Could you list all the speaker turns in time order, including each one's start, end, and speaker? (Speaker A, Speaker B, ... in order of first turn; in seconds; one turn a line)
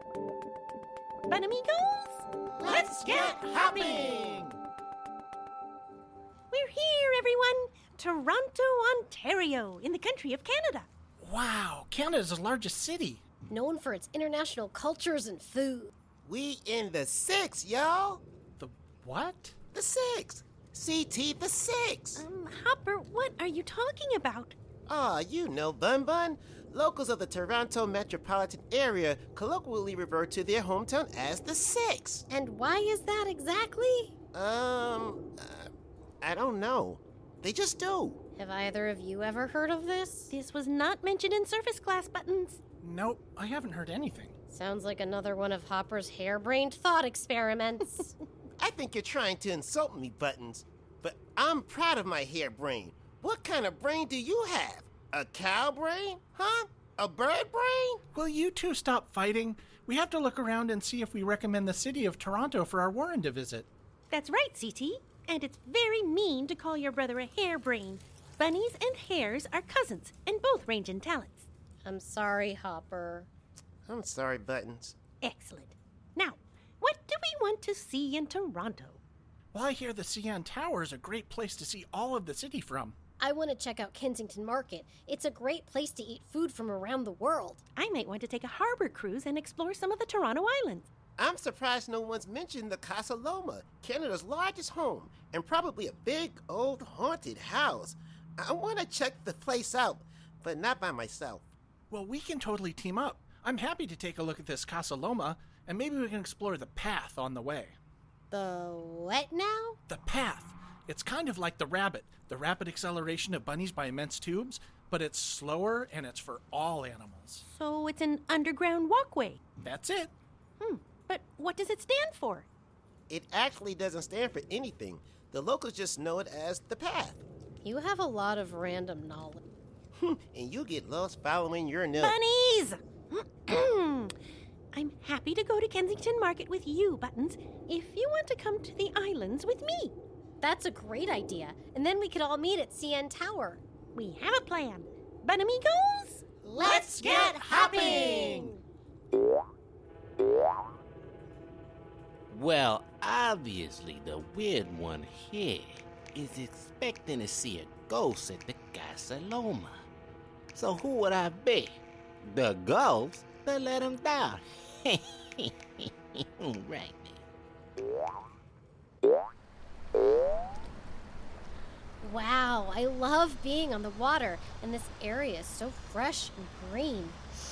Speaker A: 1.3-4.2
Speaker B: 2.6-4.4
Speaker A: 6.5-10.9
Speaker C: 11.2-13.2
Speaker D: 13.5-15.9
Speaker B: 16.2-18.2
Speaker C: 18.6-19.6
Speaker B: 19.7-22.2
Speaker A: 22.2-24.6
Speaker B: 24.9-32.3
Speaker D: 32.3-34.1
Speaker B: 34.3-35.7
Speaker B: 36.2-38.2
Speaker D: 38.4-40.3
Speaker A: 40.3-42.6
Speaker C: 42.8-44.4
Speaker D: 44.5-48.1
Speaker B: 48.6-58.0
Speaker C: 58.1-63.7
Speaker A: 64.1-71.5
Speaker D: 71.8-73.3
Speaker B: 73.9-75.0
Speaker A: 75.2-79.0
Speaker C: 79.5-83.0
Speaker D: 83.2-87.6
Speaker A: 87.8-90.9
Speaker B: 91.2-101.5
Speaker C: 101.9-107.8
Speaker D: 108.3-109.8
Speaker C: 109.9-117.4
Speaker A: 117.5-119.4
Speaker C: 119.6-120.1
Speaker A: 120.6-122.5
Speaker B: 123.1-127.2
Speaker D: 127.6-129.4
Speaker B: 129.9-132.2
Speaker A: 132.0-134.1
Speaker A: 134.7-139.9
Speaker D: 140.4-143.6
Speaker A: 143.9-148.5
Speaker B: 146.5-148.4
Speaker C: 147.5-148.3
Speaker E: 152.3-159.8
Speaker E: 160.5-167.2
Speaker D: 172.0-177.2